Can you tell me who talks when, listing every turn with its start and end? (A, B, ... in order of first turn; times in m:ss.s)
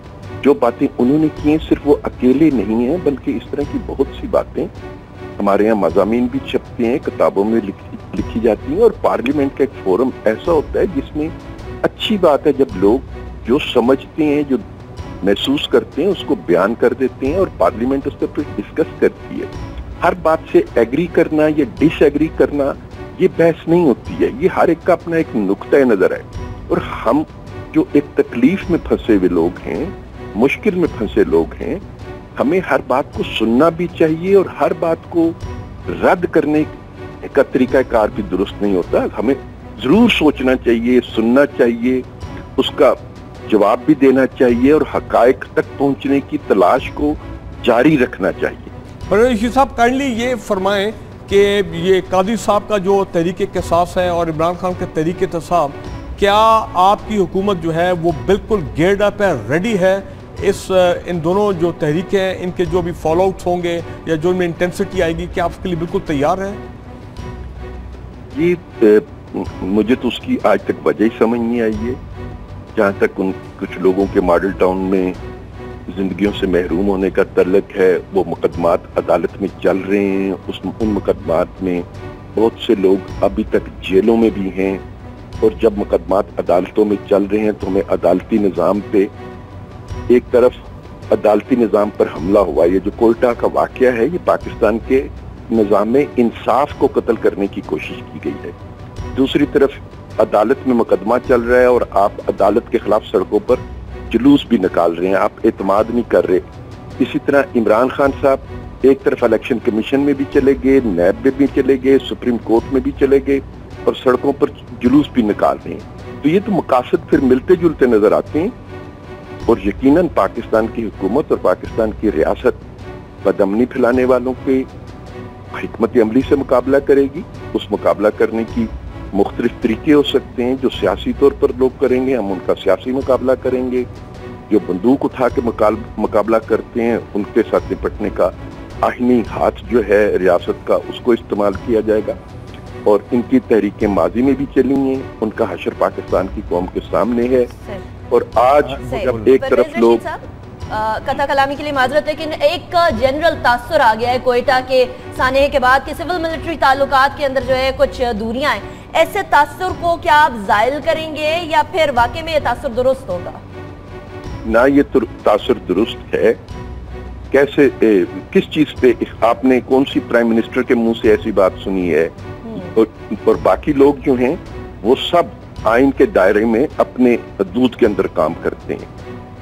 0:00.4-0:04.7 A
0:05.4-0:11.3 A
0:11.8-0:14.6 A
0:15.2-0:19.5 A
0:20.0-0:31.8 A
0:32.4-0:35.4 A
0:35.9-0:42.0 A
0:42.6-0:48.7 A
0:49.1-1:06.6 B
1:08.3-1:12.0 A
1:12.8-1:15.2 A
1:15.9-1:24.8 A
1:25.4-1:29.1 A
1:30.1-1:30.6 A
1:31.1-1:38.5 A
1:39.1-1:46.4 A
1:47.0-1:58.5 A
1:59.5-2:02.6 A
2:03.2-2:04.7 A
2:05.5-2:13.9 A
2:14.5-2:22.2 A
2:22.8-2:27.5 A
2:27.5-2:27.8 C
2:28.1-2:30.0 A
2:28.8-2:43.4 C
2:44.4-2:46.4 A
2:47.3-2:58.9 A